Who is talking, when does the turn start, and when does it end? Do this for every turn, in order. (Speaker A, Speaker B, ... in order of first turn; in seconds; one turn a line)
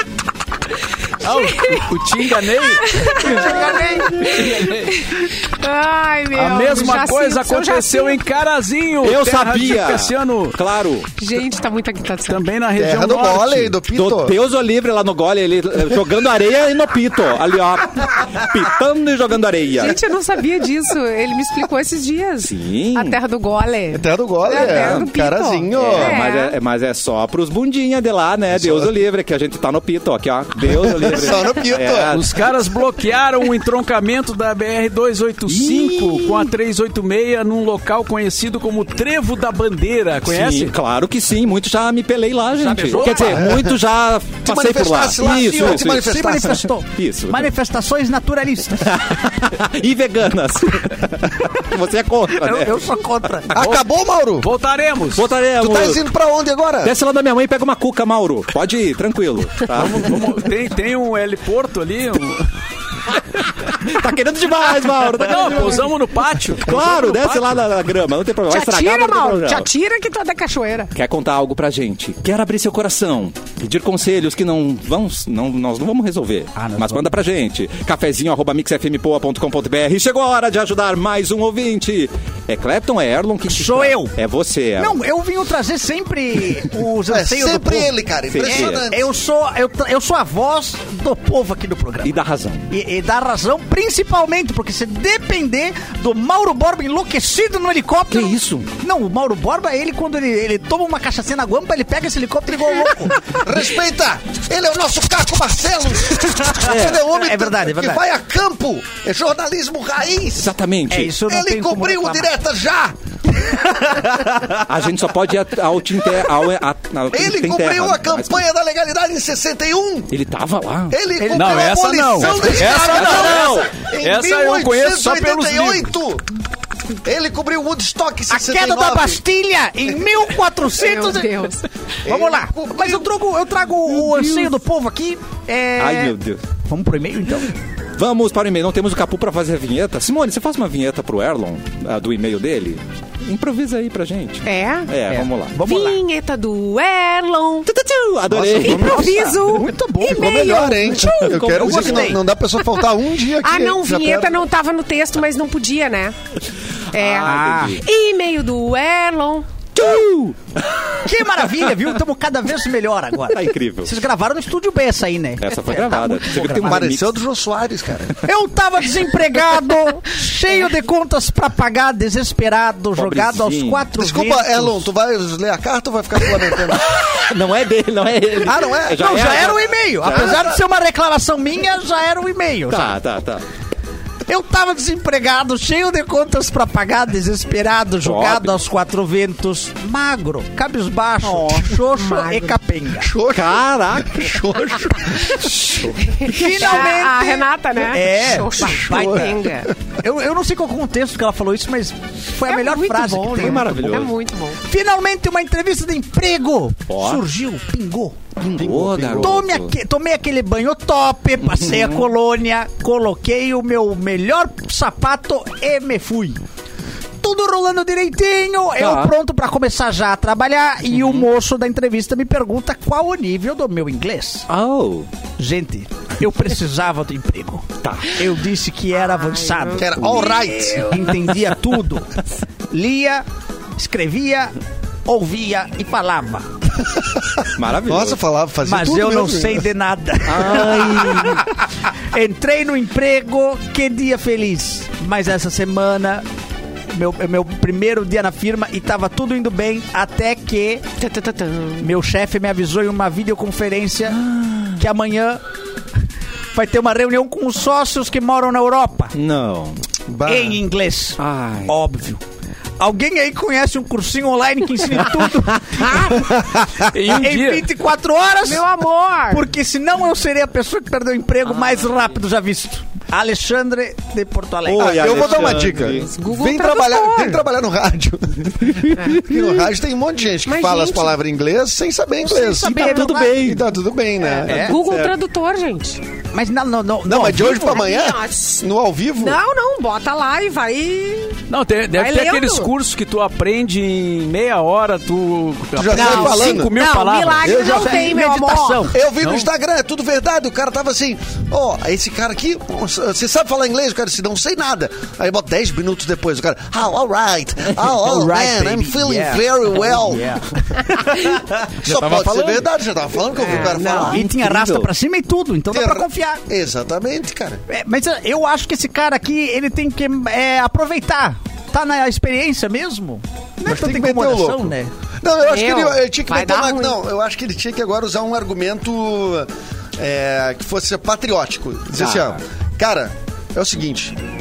Speaker A: 1.2-3.6
Speaker B: 1.4-1.9
Speaker B: 2.8-8.2
Speaker C: 3.2-4.3
Speaker A: 4.2-5.0
Speaker A: 6.3-10.6
Speaker D: 9.0-11.1
Speaker B: 11.2-12.5
Speaker A: 12.2-13.8
Speaker E: 12.8-14.3
Speaker D: 13.9-20.0
Speaker B: 19.8-26.6
Speaker D: 22.4-23.2
Speaker E: 23.9-26.2
Speaker D: 24.5-25.1
Speaker D: 25.7-32.3
Speaker E: 28.5-28.9
Speaker E: 30.7-32.2
Speaker A: 32.1-40.7
Speaker D: 35.5-36.4
Speaker D: 40.2-46.3
Speaker C: 42.6-43.5
Speaker A: 42.7-43.4
Speaker E: 43.4-43.7
Speaker E: 44.4-46.7
Speaker C: 45.2-49.0
Speaker D: 46.9-47.5
Speaker D: 48.8-52.9
Speaker C: 52.3-53.5
Speaker E: 53.5-54.5
Speaker A: 53.5-53.9
Speaker A: 54.4-55.3
Speaker D: 55.1-56.0
Speaker E: 55.6-56.9
Speaker D: 56.8-60.3
Speaker A: 59.7-62.5
Speaker D: 63.3-65.9
Speaker A: 65.2-67.5
Speaker D: 66.5-69.7
Speaker B: 68.5-70.9
Speaker D: 70.9-85.0
Speaker C: 76.5-77.1
Speaker C: 83.5-84.1
Speaker C: 84.8-92.1
Speaker E: 87.1-89.1
Speaker D: 88.3-88.9
Speaker D: 92.0-92.7
Speaker C: 92.7-103.2
Speaker D: 98.1-98.7
Speaker E: 103.3-110.5
Speaker D: 106.6-107.0
Speaker C: 106.7-108.0
Speaker D: 110.4-111.1
Speaker C: 110.9-112.3
Speaker E: 111.2-113.0
Speaker C: 113.9-114.5
Speaker D: 114.5-118.4
Speaker E: 117.1-120.1
Speaker D: 120.1-121.0
Speaker E: 120.9-126.2
Speaker C: 121.2-122.9
Speaker A: 121.3-123.4
Speaker D: 122.3-123.7
Speaker A: 124.0-125.9
Speaker E: 127.0-129.2
Speaker C: 128.3-131.5
Speaker B: 130.8-131.7
Speaker E: 132.0-133.1
Speaker C: 132.0-137.5
Speaker D: 134.0-134.5
Speaker D: 135.8-136.4
Speaker D: 137.9-145.5
Speaker B: 144.4-144.9
Speaker C: 145.1-146.0
Speaker B: 145.6-147.7
Speaker D: 147.6-149.3
Speaker E: 148.3-149.2
Speaker B: 148.6-152.0
Speaker C: 148.8-150.6
Speaker E: 150.1-154.4
Speaker C: 151.3-152.2
Speaker D: 151.4-151.8
Speaker B: 153.4-156.2
Speaker B: 156.9-159.5
Speaker D: 156.9-157.8
Speaker C: 157.2-157.8
Speaker D: 159.7-161.0
Speaker C: 161.0-166.9
Speaker D: 163.3-163.9
Speaker D: 165.4-167.1
Speaker E: 166.6-168.2
Speaker C: 168.2-174.9
Speaker D: 172.9-173.8
Speaker E: 173.9-176.9
Speaker D: 176.9-180.5
Speaker E: 178.4-179.2
Speaker C: 178.4-182.9
Speaker E: 180.0-180.5
Speaker D: 182.7-183.4
Speaker C: 184.3-193.1
Speaker D: 188.0-188.5
Speaker B: 191.4-192.6
Speaker E: 193.0-195.9
Speaker D: 193.3-194.4
Speaker D: 195.4-195.9
Speaker B: 196.0-199.7
Speaker C: 196.2-203.8
Speaker E: 198.6-199.7
Speaker B: 202.4-204.6
Speaker D: 203.3-204.1
Speaker C: 204.6-208.2
Speaker D: 206.9-207.2
Speaker E: 208.4-209.4
Speaker D: 208.4-209.7
Speaker C: 209.2-216.4
Speaker D: 211.5-212.1
Speaker C: 217.2-224.5
Speaker D: 218.8-219.1
Speaker D: 220.9-221.2
Speaker D: 224.5-225.1
Speaker C: 225.4-232.2
Speaker D: 227.8-228.2
Speaker B: 229.0-231.1
Speaker E: 229.8-231.0
Speaker C: 232.7-233.2
Speaker C: 233.8-234.5
Speaker C: 235.0-236.8
Speaker D: 237.5-238.2
Speaker E: 237.8-239.7
Speaker C: 238.6-241.5
Speaker D: 240.3-241.5
Speaker C: 242.1-246.2
Speaker C: 246.9-250.8
Speaker B: 251.0-251.9
Speaker C: 251.8-255.4
Speaker D: 254.1-254.8
Speaker C: 256.5-259.1
Speaker D: 259.1-259.8
Speaker E: 260.1-260.6
Speaker C: 260.2-262.2
Speaker D: 261.2-261.7
Speaker C: 262.8-268.6
Speaker A: 266.8-267.7
Speaker B: 268.4-269.5
Speaker C: 269.3-275.6
Speaker D: 274.6-276.1
Speaker E: 274.7-284.8
Speaker B: 275.8-277.4
Speaker D: 278.6-279.0
Speaker B: 278.9-279.7
Speaker B: 280.4-281.1
Speaker C: 282.2-283.5
Speaker D: 282.7-283.6
Speaker B: 284.2-286.0
Speaker C: 284.4-284.8
Speaker D: 284.6-285.1
Speaker C: 286.3-287.8
Speaker E: 287.0-289.4
Speaker B: 287.6-288.6
Speaker B: 289.2-292.7
Speaker A: 291.5-297.9
Speaker E: 295.7-296.8
Speaker B: 295.9-299.0
Speaker C: 297.4-299.0
Speaker E: 298.9-310.4
Speaker A: 299.2-299.5
Speaker C: 307.8-311.4
Speaker E: 311.8-314.2
Speaker D: 311.8-312.6
Speaker B: 313.4-314.2
Speaker D: 313.5-314.9
Speaker C: 313.9-316.4
Speaker E: 315.7-317.6
Speaker C: 317.7-324.9
Speaker E: 323.6-334.2
Speaker B: 325.4-327.0
Speaker D: 332.0-332.4